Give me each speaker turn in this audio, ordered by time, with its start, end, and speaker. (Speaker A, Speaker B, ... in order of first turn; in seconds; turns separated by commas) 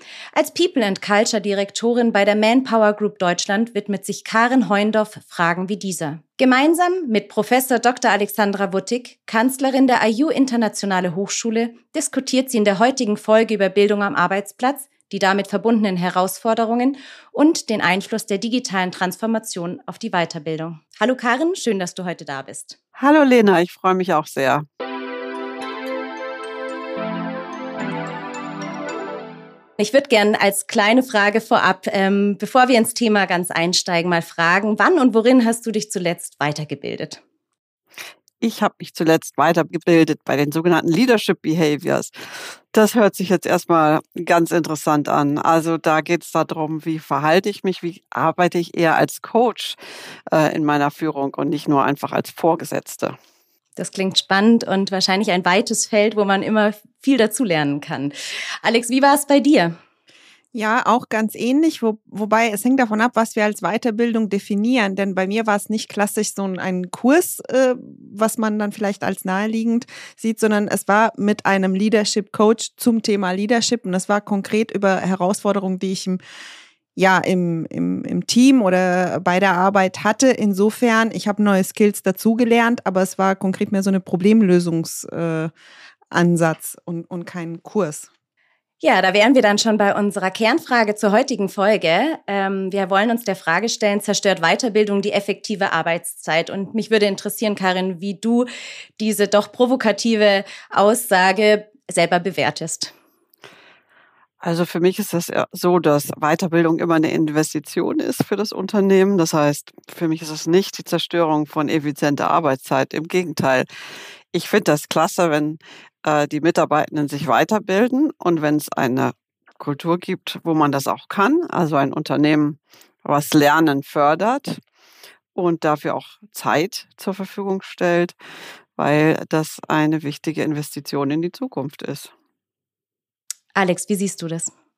Speaker A: 0.3-22.8, Speaker B: 23.0-24.7, Speaker A: 29.8-37.2, Speaker B: 38.4-49.8, Speaker B: 50.3-53.2, Speaker A: 53.8-59.8, Speaker C: 60.5-76.2, Speaker C: 77.0-85.5, Speaker C: 86.1-88.1, Speaker A: 88.8-98.5, Speaker A: 99.0-102.9, Speaker B: 104.4-113.7, Speaker B: 114.3-124.6, Speaker B: 125.3-128.2, Speaker B: 128.8-132.1, Speaker A: 133.6-134.5